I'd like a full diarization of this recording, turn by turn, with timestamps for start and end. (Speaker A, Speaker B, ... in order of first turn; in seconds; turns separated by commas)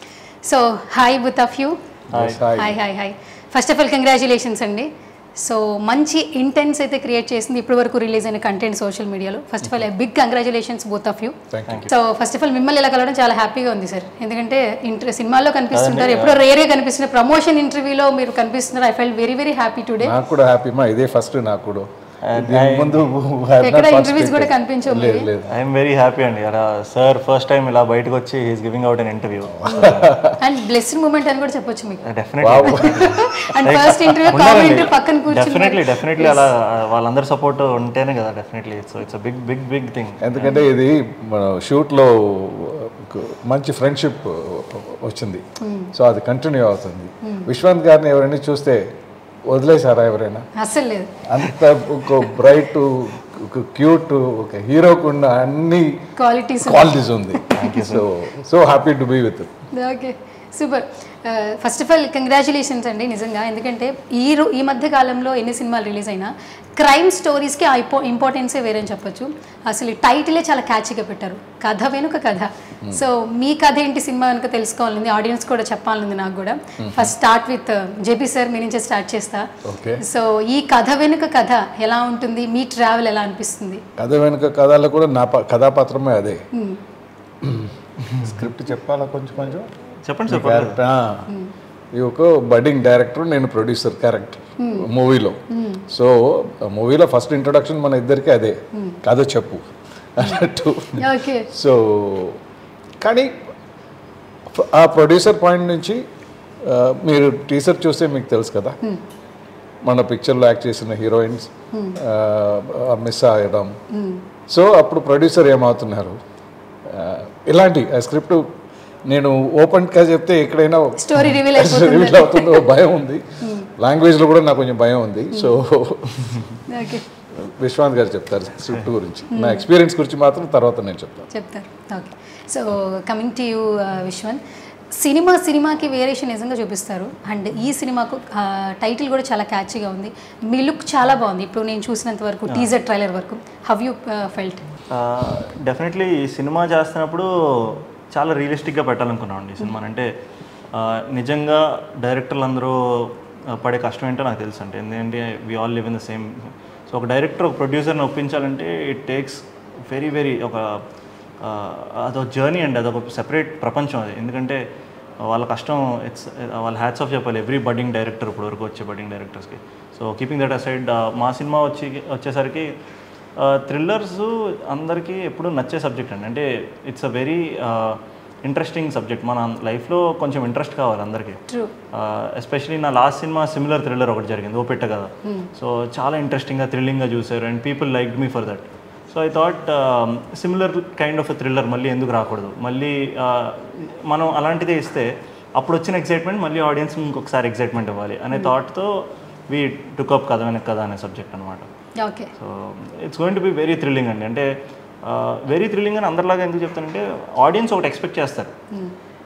Speaker A: 0.4-1.8, Speaker B: 2.1-2.8, Speaker C: 2.1-2.4, Speaker A: 2.5-20.1, Speaker B: 11.5-11.9, Speaker C: 15.7-16.4, Speaker B: 20.0-25.6, Speaker C: 22.2-23.1, Speaker A: 23.6-25.3, Speaker C: 25.5-30.1, Speaker B: 29.5-30.4, Speaker A: 29.7-32.0, Speaker C: 32.0-33.1, Speaker B: 32.4-33.5, Speaker A: 32.6-36.5, Speaker C: 33.6-40.6, Speaker B: 40.2-48.8, Speaker A: 45.6-45.9, Speaker A: 47.2-47.5, Speaker B: 49.5-50.5, Speaker A: 50.5-51.1, Speaker B: 51.2-56.0, Speaker A: 56.2-57.8, Speaker B: 56.6-59.5, Speaker C: 57.5-58.1, Speaker A: 59.7-83.8, Speaker B: 76.8-77.1, Speaker B: 79.6-80.0, Speaker B: 84.0-86.4, Speaker A: 86.5-86.8, Speaker B: 87.4-89.7, Speaker C: 90.0-90.8, Speaker B: 90.3-91.3, Speaker B: 91.9-102.4, Speaker A: 94.6-94.9, Speaker A: 95.5-95.8, Speaker A: 98.7-99.0, Speaker A: 101.0-101.5, Speaker B: 103.0-103.5, Speaker B: 104.5-106.0, Speaker B: 106.6-108.8, Speaker B: 109.8-113.7, Speaker A: 111.7-112.0, Speaker A: 113.9-114.2, Speaker B: 114.5-116.2, Speaker B: 116.9-118.5, Speaker B: 119.1-123.2, Speaker A: 121.0-122.7, Speaker A: 123.4-123.7, Speaker B: 123.8-126.4, Speaker A: 126.7-127.0, Speaker B: 127.3-131.3, Speaker A: 129.3-129.7, Speaker A: 131.3-134.4, Speaker A: 134.9-144.6, Speaker C: 144.9-150.1, Speaker C: 150.7-160.8, Speaker C: 161.4-164.6, Speaker C: 165.2-172.8, Speaker C: 173.3-201.7, Speaker A: 202.0-202.3, Speaker C: 202.4-208.5